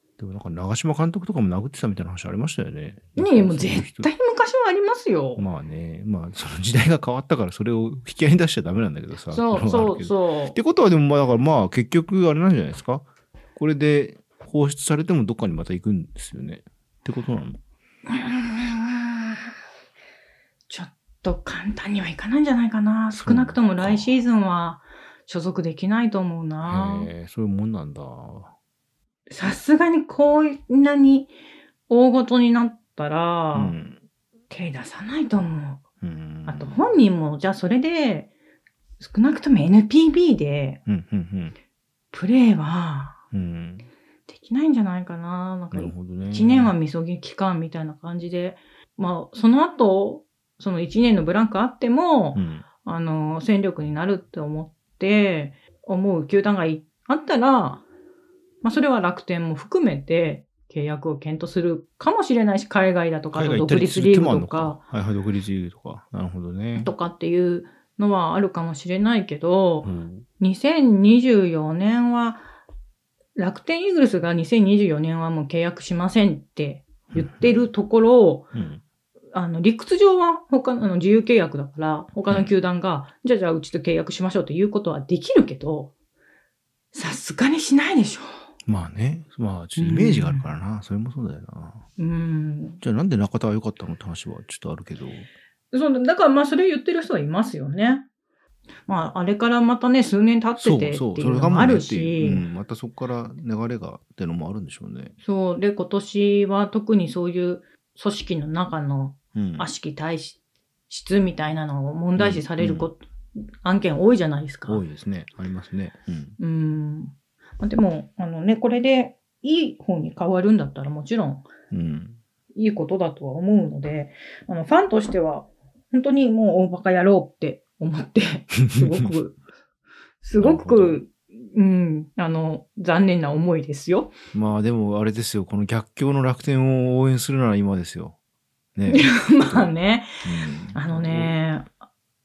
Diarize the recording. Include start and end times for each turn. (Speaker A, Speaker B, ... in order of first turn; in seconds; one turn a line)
Speaker A: 0.2-4.1
Speaker B: 3.2-5.5
Speaker A: 5.4-13.1
Speaker B: 9.3-10.6
Speaker A: 13.6-17.6
Speaker B: 18.1-19.5
Speaker B: 20.7-27.1
Speaker A: 23.1-24.1
Speaker A: 26.6-28.5
Speaker B: 29.3-31.3
Speaker B: 31.9-33.8
Speaker A: 33.5-34.0
Speaker B: 34.5-35.8
Speaker A: 36.0-36.8
Speaker B: 36.5-38.3
Speaker B: 39.0-40.8
Speaker A: 40.9-41.5
Speaker B: 42.1-43.2
Speaker A: 43.3-43.9
Speaker B: 44.3-57.9
Speaker A: 45.7-46.7
Speaker A: 52.4-52.6
Speaker B: 58.6-64.8
Speaker A: 63.3-66.9
Speaker B: 66.8-72.4
Speaker A: 69.8-70.2
Speaker B: 73.4-78.5
Speaker A: 77.1-77.7
Speaker A: 78.5-78.8
Speaker B: 79.3-85.9
Speaker B: 86.9-88.4
Speaker A: 88.7-91.8
Speaker B: 89.8-90.5
Speaker B: 92.0-92.8
Speaker A: 92.8-95.3
Speaker B: 95.7-98.0
Speaker B: 98.9-102.5
Speaker A: 100.6-105.1
Speaker B: 105.2-110.4
Speaker A: 109.3-109.7
Speaker B: 110.9-113.0
Speaker A: 112.2-112.9
Speaker B: 113.6-114.8
Speaker A: 114.7-116.4
Speaker B: 116.4-121.5
Speaker A: 121.7-122.2
Speaker B: 122.6-129.4
Speaker B: 130.2-134.1
Speaker A: 130.4-131.0
Speaker A: 134.3-138.2
Speaker A: 138.8-139.7
Speaker B: 138.9-140.2
Speaker A: 140.2-141.4
Speaker B: 140.7-141.7